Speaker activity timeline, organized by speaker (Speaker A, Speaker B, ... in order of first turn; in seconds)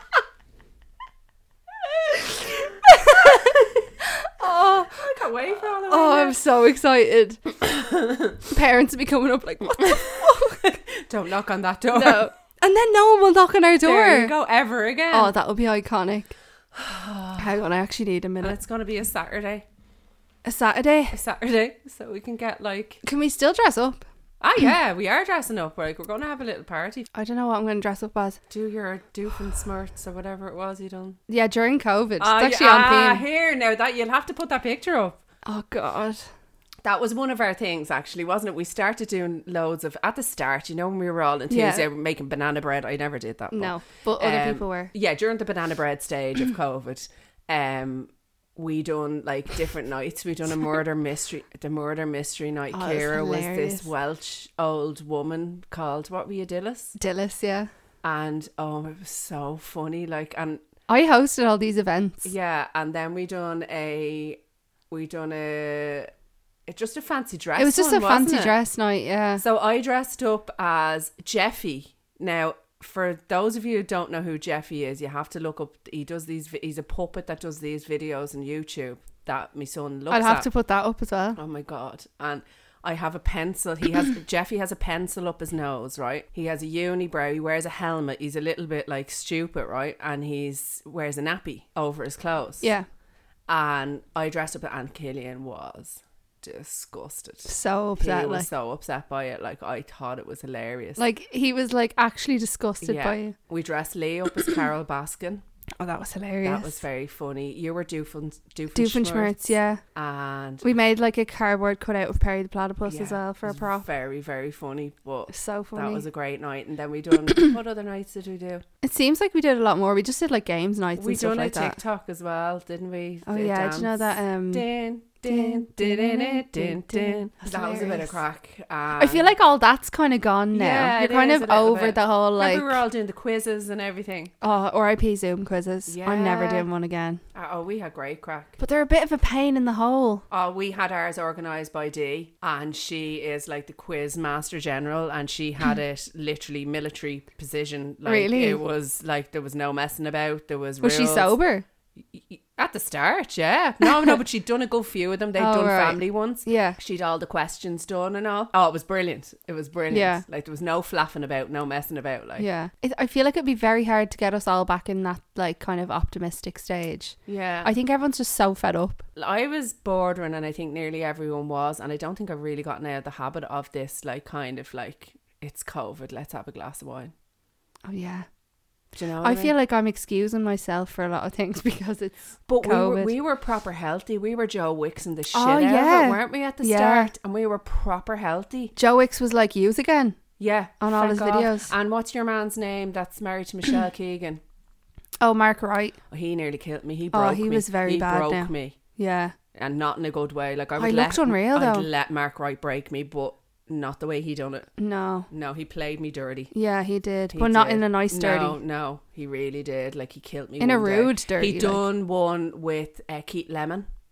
Speaker A: 2.1-5.0, 5.9-7.5, 8.5-10.6, 11.9-14.3, 15.1-16.4, 17.4-18.6, 20.4-21.2, 23.0-24.0, 27.1-28.4, 31.3-33.2, 35.5-36.3, 41.5-41.9, 43.5-44.9, 52.7-53.9, 57.0-57.7, 60.9-62.3, 67.6-69.4, 80.1-81.4, 92.6-92.9, 97.5-98.5, 101.0-103.4, 105.8-106.8, 108.7-109.8, 110.6-113.9, 115.3-116.0, 118.8-121.8, 123.3-124.7, 125.3-128.2, 129.0-132.8, 134.4-137.2, 138.6-140.2, 148.1-148.6, 150.8-151.7, 155.4-156.8, 159.9-160.2, 162.4-169.0, 177.9-178.3, 179.2-183.2, 185.3-187.1, 188.8-190.2, 190.8-191.7, 195.2-196.0, 197.1-199.4, 200.8-201.9, 204.8-205.3, 206.5-208.6, 210.6-211.8
Speaker B: 4.6-6.4, 7.6-8.4, 9.9-12.3, 13.8-15.3, 16.7-17.6, 18.4-19.7, 21.1-23.0, 24.4-27.1, 28.5-31.2, 32.2-35.2, 36.8-57.0, 58.0-60.6, 62.2-66.1, 66.7-68.6, 69.4-80.5, 81.4-92.7, 93.5-101.0, 102.8-105.4, 106.4-110.6, 112.9-118.6, 121.0-129.3, 130.5-134.3, 135.9-136.7, 137.3-138.6, 140.3-151.4, 152.0-162.5, 167.3-167.7, 169.2-177.1, 178.9-179.5, 182.5-188.7, 190.4-194.4, 196.1-198.8, 199.5-204.7, 205.3-206.5, 207.3-213.9